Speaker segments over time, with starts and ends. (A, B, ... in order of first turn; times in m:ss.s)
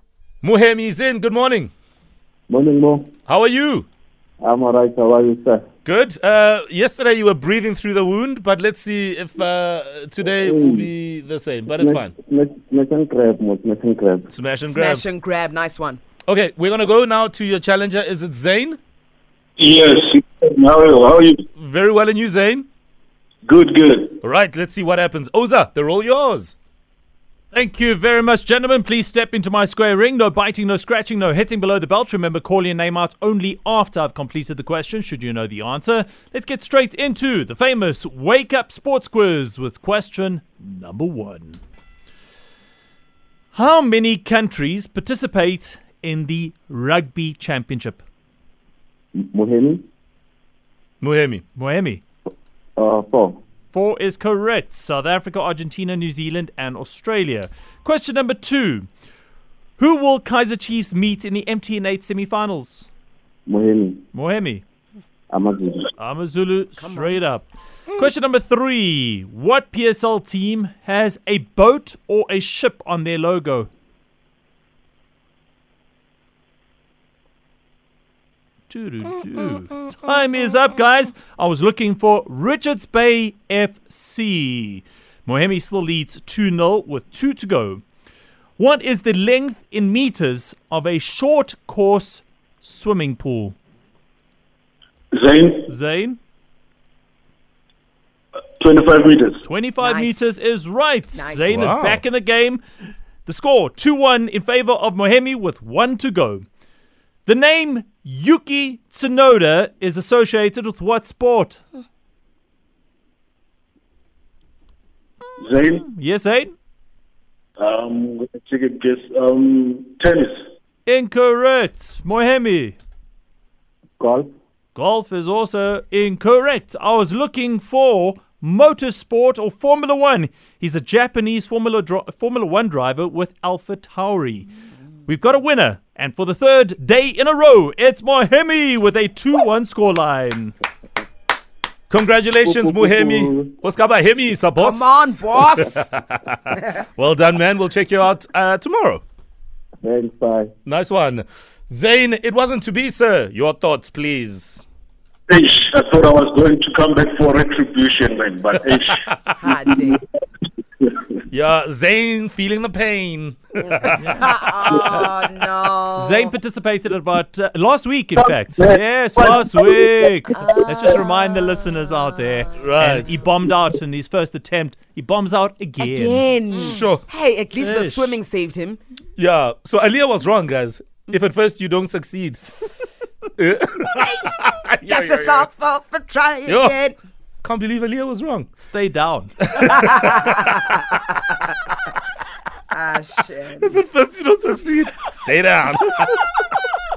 0:00.4-0:01.7 A
0:02.5-0:03.1 B
0:03.3-0:03.9 A
0:04.4-0:05.6 B
0:05.8-0:12.1 A
0:10.4-0:10.9 B
0:11.8-0:14.3 B
0:14.3-0:15.0 A
0:14.7-0:16.0 C
0:16.3-0:18.8 A
0:19.6-0:21.4 D
0:21.6-0:22.7 A
0:23.4-0:24.2 D
0:24.2-0:26.6 A
0:27.5-0:41.6 E
0:43.5-0:48.0 E
0:49.2-0:49.8 B
0:51.0-0:51.4 A
0:51.6-0:52.0 E
0:52.8-0:53.4 B
0:53.7-0:58.9 E
0:59.8-1:02.9 E
1:03.5-1:04.0 B
1:04.1-1:04.6 E
1:05.3-1:05.9 B
1:06.0-1:13.7 E
1:06.8-1:07.2 C
1:18.7-1:27.8 E
1:28.6-1:33.6 E
1:35.1-1:35.7 D
1:35.7-1:36.2 E
1:38.6-1:39.5 D
1:39.4-1:42.6 E
1:39.8-1:40.3 C
1:41.1-1:41.6 C
1:41.5-1:42.0 A
1:43.3-1:46.5 E
1:47.3-1:51.6 E
1:55.4-1:55.9 D
1:55.8-1:56.5 E
1:57.6-2:00.5 D
2:00.9-2:02.8 E
2:04.0-2:04.3 B
2:04.8-2:14.5 E
2:15.1-2:20.5 E
2:21.9-2:29.0 A
2:22.4-2:23.5 B
2:24.6-2:25.9 C
2:29.8-2:30.5 B
2:30.7-2:34.6 A
2:35.3-2:39.1 D
2:39.4-2:40.0 C
2:41.3-2:44.9 A
2:43.7-2:46.3 C
2:44.0-2:44.3 E
2:46.0-2:56.2 E
2:48.2-2:50.0 D
2:50.3-2:52.4 C
2:52.6-2:53.2 A
2:55.8-2:58.8 C
2:56.6-2:57.0 A
2:57.5-2:58.2 E
2:59.2-3:02.4 A
3:03.4-3:05.5 A
3:04.0-3:04.3 C
3:04.8-3:07.0 C
3:06.5-3:06.8 A
3:07.4-3:08.5 A
3:08.6-3:09.5 E
3:09.4-3:10.6 A
3:09.6-3:11.4 C
3:12.7-3:13.8 C
3:13.6-3:16.2 A